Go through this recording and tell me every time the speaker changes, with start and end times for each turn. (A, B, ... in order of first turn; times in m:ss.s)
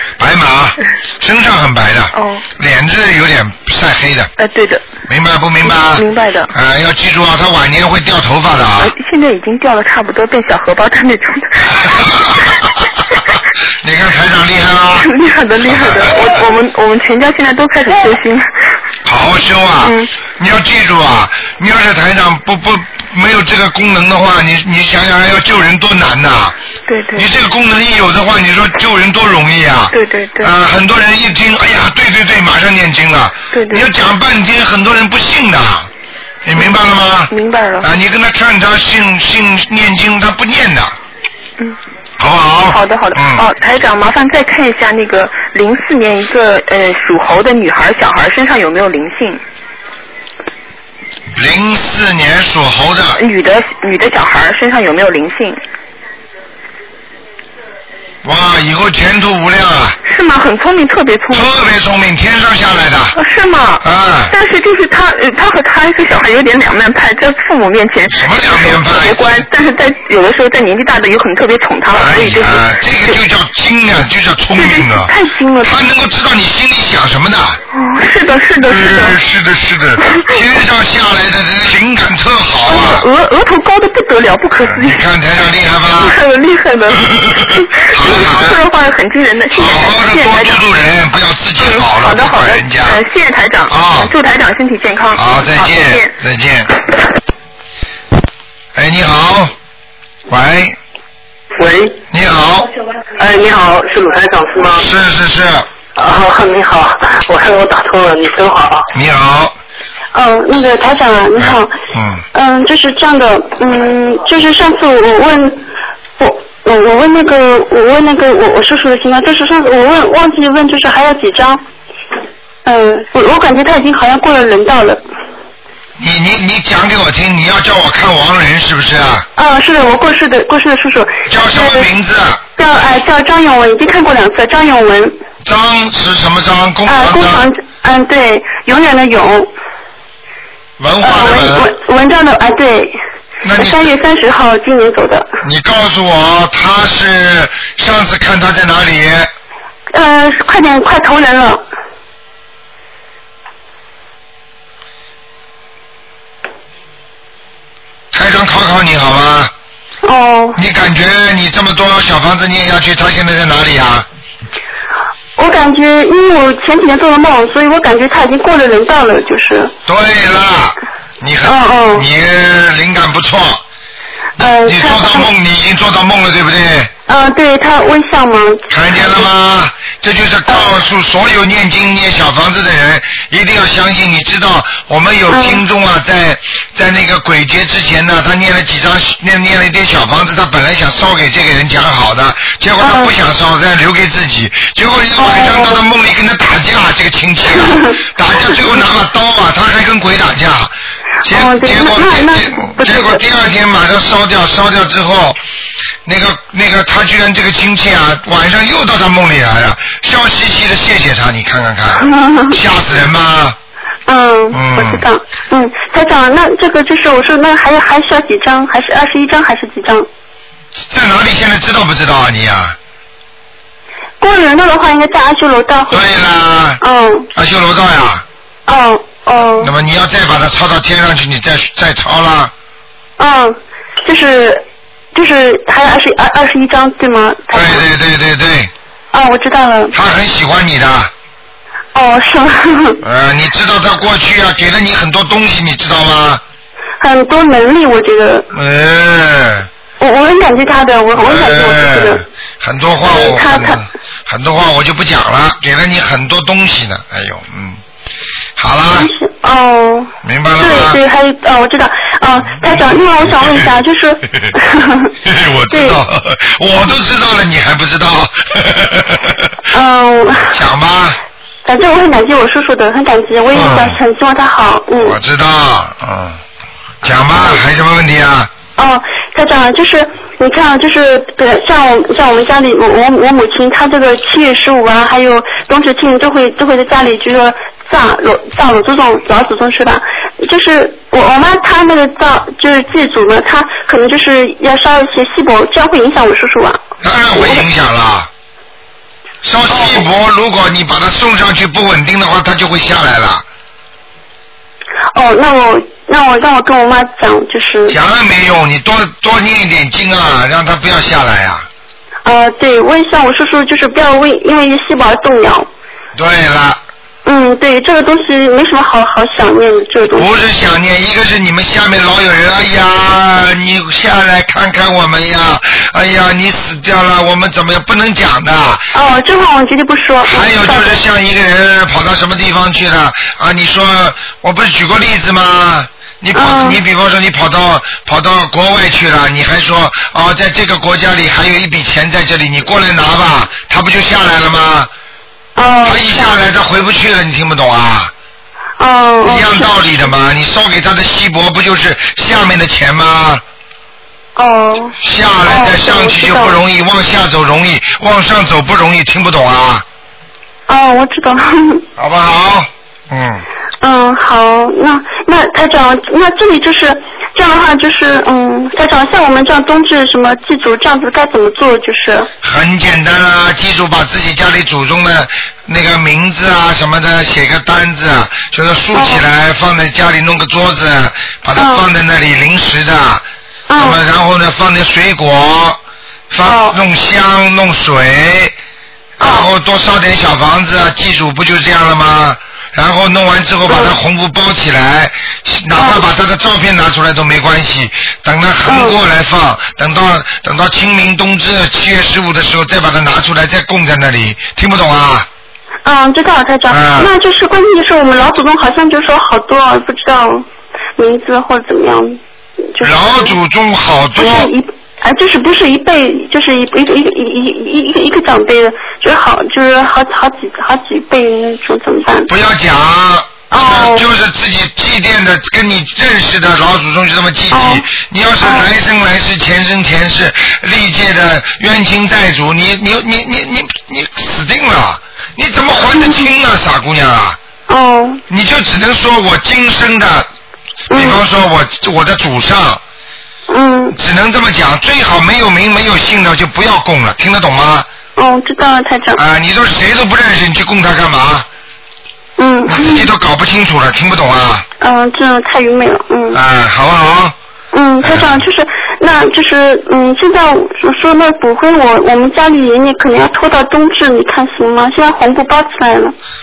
0:00.2-0:04.3 A
0:02.1-0:02.5 B
0:04.4-0:04.9 B
0:05.1-0:08.9 A
0:05.6-0:06.5 B
0:08.8-0:12.6 B
0:11.8-0:12.6 A
0:13.8-0:15.1 A
0:15.0-0:18.5 B
0:15.7-0:16.3 A
0:19.0-0:26.6 A
0:19.8-0:20.1 B
0:26.9-0:27.3 B
0:27.2-0:35.9 A
0:29.9-0:30.5 B
0:33.5-0:33.9 B
0:36.4-0:41.0 A
0:36.6-0:37.9 B
0:42.2-0:43.5 A
0:42.7-0:49.4 B
0:51.4-0:53.2 A
0:53.2-0:55.6 B
0:58.2-1:00.0 A
1:00.1-1:01.5 B
1:01.3-1:03.2 A
1:03.2-1:13.2 B
1:03.8-1:04.3 A
1:08.1-1:09.4 A
1:11.9-1:17.6 A
1:14.5-1:15.8 B
1:17.7-1:19.2 B
1:18.6-1:23.1 A
1:20.0-1:20.4 B
1:22.7-1:25.0 B
1:24.6-1:26.2 A
1:26.0-1:30.6 B
1:27.0-1:28.6 A
1:29.5-1:33.0 A
1:31.6-1:36.1 B
1:33.7-1:34.1 A
1:35.1-1:36.7 A
1:38.8-1:39.5 A
1:40.3-1:40.8 A
1:41.6-1:42.0 C
1:42.1-1:42.7 A
1:43.2-1:44.9 C
1:44.7-1:45.7 A
1:46.0-1:48.9 C
1:48.9-1:49.6 A
1:50.1-1:51.7 D
1:51.4-1:52.2 A
1:52.3-1:55.7 D
1:56.2-2:01.6 D
2:02.6-2:05.0 D
2:06.0-2:09.3 A
2:09.4-2:11.9 D
2:11.3-2:12.4 A
2:12.6-2:15.2 D
2:15.4-2:17.5 A
2:16.9-2:19.5 D
2:20.8-2:21.7 A
2:21.0-2:23.0 D
2:23.4-2:23.9 A
2:23.5-2:25.3 D
2:25.4-2:29.3 A
2:29.9-2:31.6 D
2:38.1-2:39.5 A
2:40.0-2:40.6 D
2:40.6-2:44.1 A
2:45.4-2:49.7 D
2:49.9-2:53.6 A
2:51.4-2:52.1 D
2:54.4-2:55.3 D
2:54.4-2:56.9 A
2:57.1-2:59.3 D
2:58.7-3:25.4 A
3:05.3-3:05.6 D
3:12.8-3:13.1 D
3:15.2-3:15.8 D
3:17.5-3:18.0 D
3:21.2-3:23.2 D
3:26.0-3:33.6 A
3:32.0-3:32.6 D
3:34.1-3:40.1 D
3:34.5-3:35.0 A
3:40.8-3:42.8 A
3:44.2-3:46.1 D
3:45.9-3:46.8 A
3:46.8-3:47.3 D
3:47.3-3:48.2 A
3:48.7-3:49.7 D
3:49.6-3:52.5 A
3:53.2-3:57.9 D
3:57.5-3:58.7 A
3:59.1-4:00.0 D
3:59.9-4:01.1 A
4:01.9-4:03.0 D
4:03.0-4:06.4 A
4:07.0-4:08.5 D
4:08.5-4:09.7 A
4:10.0-4:12.2 D
4:11.1-4:17.8 A
4:13.0-4:13.8 D
4:18.6-4:19.1 A
4:19.0-4:25.2 D
4:20.2-4:21.0 A
4:22.6-4:23.7 A
4:25.2-4:29.5 A
4:25.7-4:26.0 D
4:29.7-4:30.6 D
4:30.5-4:31.2 A
4:31.6-4:35.2 D
4:33.5-4:34.0 A
4:35.0-4:36.4 A
4:37.0-4:38.5 A
4:37.3-4:37.6 D
4:38.8-4:56.8 D
4:57.0-4:58.3 A
4:57.3-4:57.6 D
4:59.4-5:03.4 A
4:59.7-5:00.1 D
5:05.1-5:08.0 D
5:07.9-5:11.7 A
5:12.2-5:15.7 D
5:16.2-5:16.8 A
5:17.2-5:20.3 D
5:20.1-5:28.9 A
5:28.9-5:31.0 D
5:30.2-5:44.9 A
5:36.3-5:36.8 D
5:45.6-5:46.4 D
5:45.8-5:48.1 A
5:48.8-5:49.8 D
5:49.2-5:53.4 A
5:54.4-5:56.6 D
5:55.0-5:59.8 A
6:00.7-6:01.8 D
6:02.0-6:03.4 A
6:03.8-6:12.3 D
6:12.4-6:23.2 A
6:18.9-6:19.2 D
6:21.6-6:21.8 D
6:23.7-6:24.0 D
6:23.8-6:25.8 A
6:26.3-6:28.6 A
6:26.4-6:26.8 D
6:29.2-6:29.5 D
6:29.2-6:45.3 A
6:33.7-6:34.0 D
6:35.8-6:36.0 D
6:38.7-6:39.0 D
6:45.8-6:50.5 D
6:46.7-6:47.1 A
6:51.0-6:52.2 D
6:52.7-6:53.4 D
6:52.8-6:54.5 A
6:54.2-7:02.3 D
7:02.3-7:17.4 A
7:03.5-7:04.1 D
7:07.5-7:07.9 D
7:08.4-7:08.7 D
7:15.9-7:16.3 D
7:17.7-7:18.2 D
7:18.3-7:20.3 A
7:20.9-7:21.2 D
7:20.9-7:22.8 A
7:23.5-7:24.0 D
7:23.9-7:27.9 A
7:28.2-7:29.2 D
7:29.2-7:31.5 A
7:32.4-7:33.1 D
7:32.7-7:34.7 A
7:34.8-7:36.4 D
7:36.3-7:37.4 A
7:37.7-7:46.2 D
7:38.0-7:38.4 A